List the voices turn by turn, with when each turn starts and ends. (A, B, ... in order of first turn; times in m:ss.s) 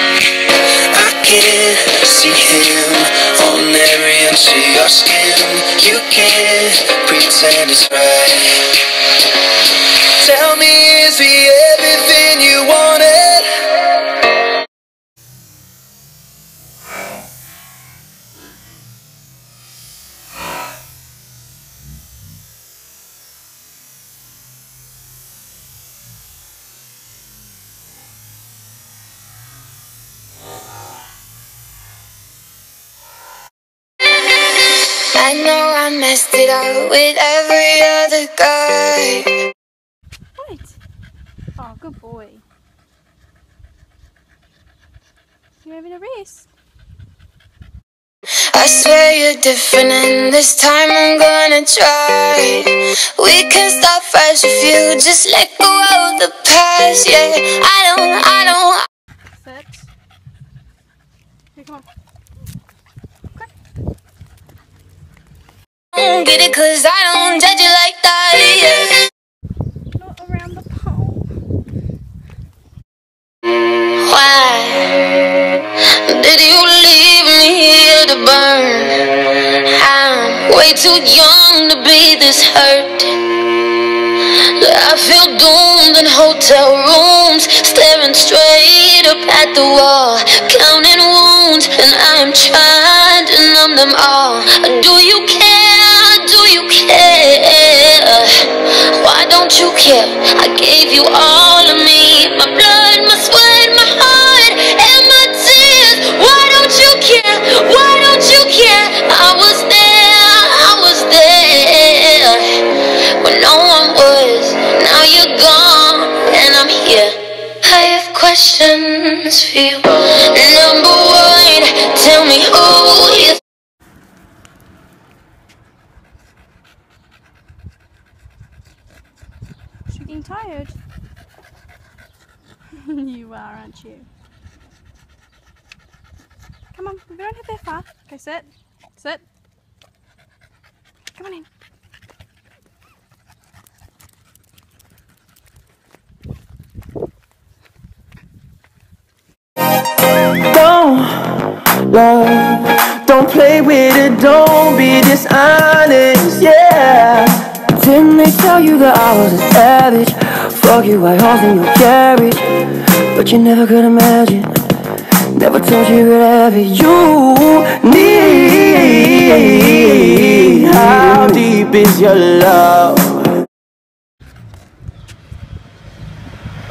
0:00.9-0:08.6 A
0:10.2-0:13.5 A
0:35.2-0:39.3 B
0:40.4-0:40.8 C
0:41.6-0:42.4 C
0:45.6-0:46.5 C
0:48.5-0:58.8 B
0:59.4-0:59.9 C
1:01.6-1:01.9 C
1:06.0-1:09.0 B
1:10.0-1:11.3 C
1:14.0-1:15.1 B
1:16.0-1:19.1 B
1:19.6-1:23.2 B
1:24.6-2:03.4 B
2:09.9-2:10.8 C
2:12.8-2:14.1 C
2:16.7-2:19.2 C
2:21.2-2:21.5 C
2:30.5-2:44.6 D
2:45.3-2:53.3 D